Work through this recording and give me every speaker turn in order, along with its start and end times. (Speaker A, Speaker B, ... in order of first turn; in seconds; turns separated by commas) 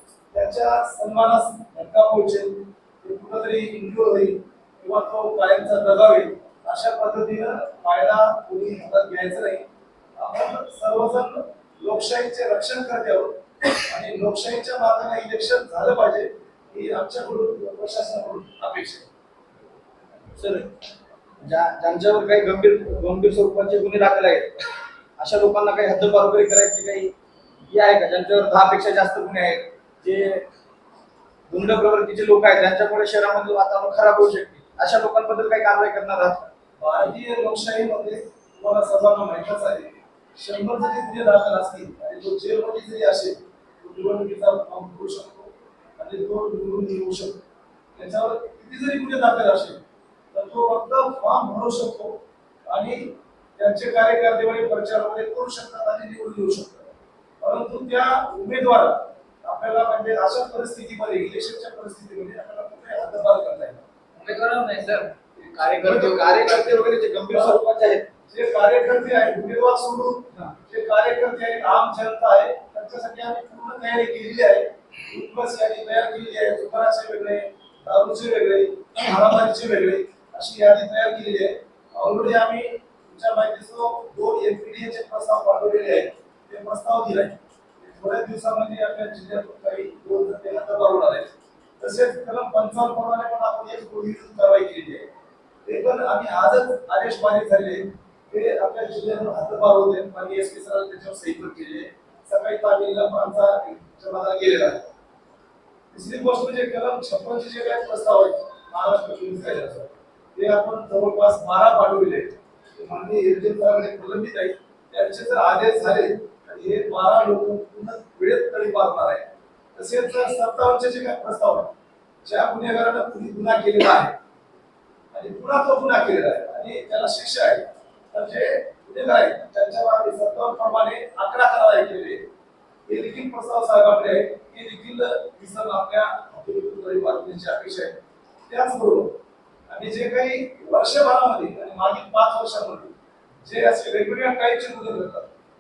Speaker A: 0.3-19.1, Speaker B: 20.4-20.7, Speaker B: 21.4-24.6, Speaker B: 25.2-27.1, Speaker B: 27.7-30.4, Speaker B: 31.5-36.5, Speaker A: 36.8-47.4, Speaker A: 48.0-52.2, Speaker A: 52.7-63.8, Speaker C: 64.2-66.9, Speaker B: 65.5-68.0, Speaker A: 67.3-67.6, Speaker A: 68.3-95.1, Speaker A: 95.7-104.9, Speaker A: 105.9-121.7, Speaker A: 122.2-124.1, Speaker A: 125.1-132.2, Speaker A: 132.9-139.1, Speaker A: 139.7-145.3